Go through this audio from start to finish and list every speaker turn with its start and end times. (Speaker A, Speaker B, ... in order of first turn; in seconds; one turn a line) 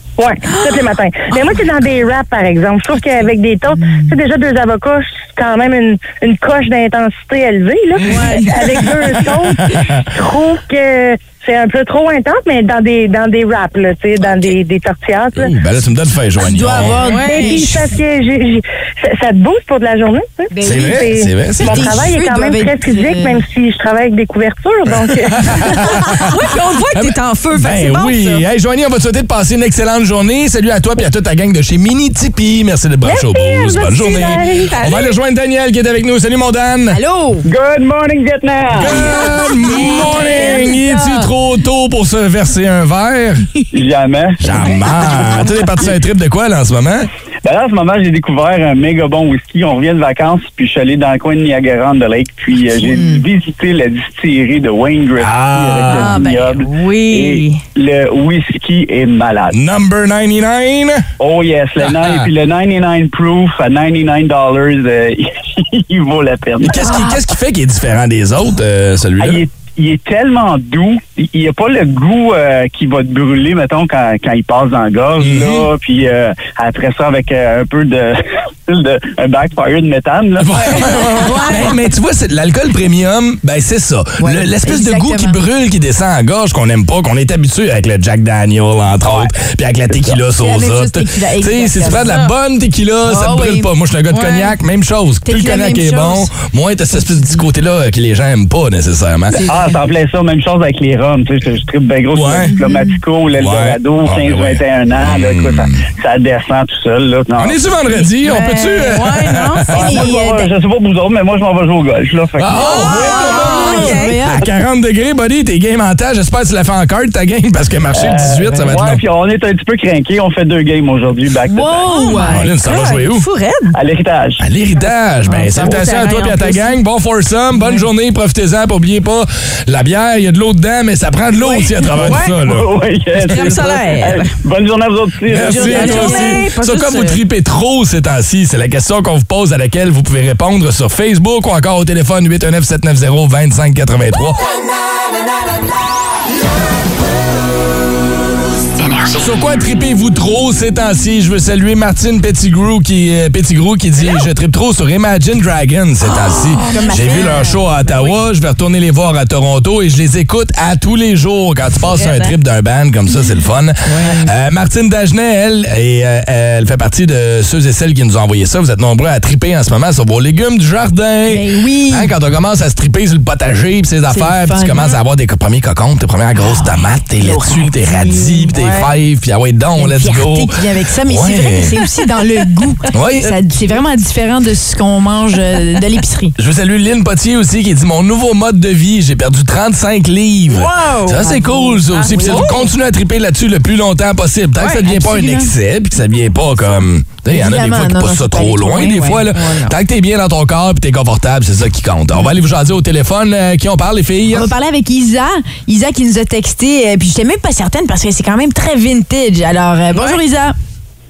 Speaker A: 0.2-9.6
Speaker B: 0.4-1.5
Speaker C: 3.8-4.1
Speaker B: 8.1-8.6
Speaker A: 10.1-15.4
Speaker D: 15.3-17.0
Speaker C: 16.4-17.9
Speaker B: 17.0-17.7
Speaker A: 17.2-25.4
Speaker C: 20.5-21.1
Speaker D: 20.6-22.1
Speaker C: 21.6-23.4
Speaker D: 25.3-26.3
Speaker B: 26.1-28.4
Speaker D: 26.9-37.0
Speaker A: 33.0-34.4
Speaker B: 34.5-35.1
Speaker C: 36.9-37.4
Speaker E: 37.4-39.1
Speaker D: 38.8-43.5
Speaker B: 39.7-40.9
Speaker C: 39.8-40.7
Speaker E: 43.7-44.4
Speaker D: 44.4-47.1
Speaker E: 47.4-59.5
Speaker C: 52.9-53.2
Speaker D: 55.2-56.2
Speaker B: 55.9-57.6
Speaker D: 59.5-61.0
Speaker E: 61.2-67.0
Speaker D: 61.8-62.3
Speaker D: 66.6-69.4
Speaker E: 69.2-80.9
Speaker D: 75.2-75.7
Speaker D: 80.4-99.4
Speaker B: 80.9-81.7
Speaker C: 84.2-85.4
Speaker C: 90.2-92.1
Speaker B: 92.0-92.3
Speaker C: 93.0-93.7
Speaker B: 94.1-94.5
Speaker C: 95.2-96.3
Speaker C: 99.3-99.8
Speaker E: 99.4-107.6
Speaker D: 102.1-102.6
Speaker C: 102.4-103.0
Speaker D: 103.4-105.8
Speaker D: 107.4-110.0
Speaker B: 108.2-109.7
Speaker E: 109.7-113.3
Speaker C: 109.7-110.5
Speaker D: 112.4-119.0
Speaker B: 112.5-114.2
Speaker C: 112.9-114.4
Speaker E: 117.9-122.0
Speaker C: 121.5-122.4
Speaker B: 121.8-123.8
Speaker D: 122.2-123.2
Speaker E: 123.7-124.4
Speaker D: 124.4-132.7
Speaker B: 125.3-126.8
Speaker E: 131.9-136.2
Speaker B: 132.0-132.3
Speaker B: 133.2-134.3
Speaker D: 135.3-144.4
Speaker B: 135.5-137.2
Speaker C: 135.8-136.3
Speaker D: 149.1-181.8
Speaker B: 156.2-158.1
Speaker C: 156.7-157.6
Speaker B: 161.9-162.3
Speaker C: 163.9-164.3
Speaker C: 171.3-172.1
Speaker C: 174.1-174.9
Speaker C: 177.2-178.8
Speaker C: 179.8-186.3
Speaker D: 182.9-183.3
Speaker D: 186.4-204.5
Speaker B: 190.5-191.1
Speaker C: 191.0-192.7
Speaker B: 191.9-192.7
Speaker C: 194.7-195.5
Speaker C: 197.3-199.7
Speaker C: 204.3-210.5
Speaker B: 209.9-210.2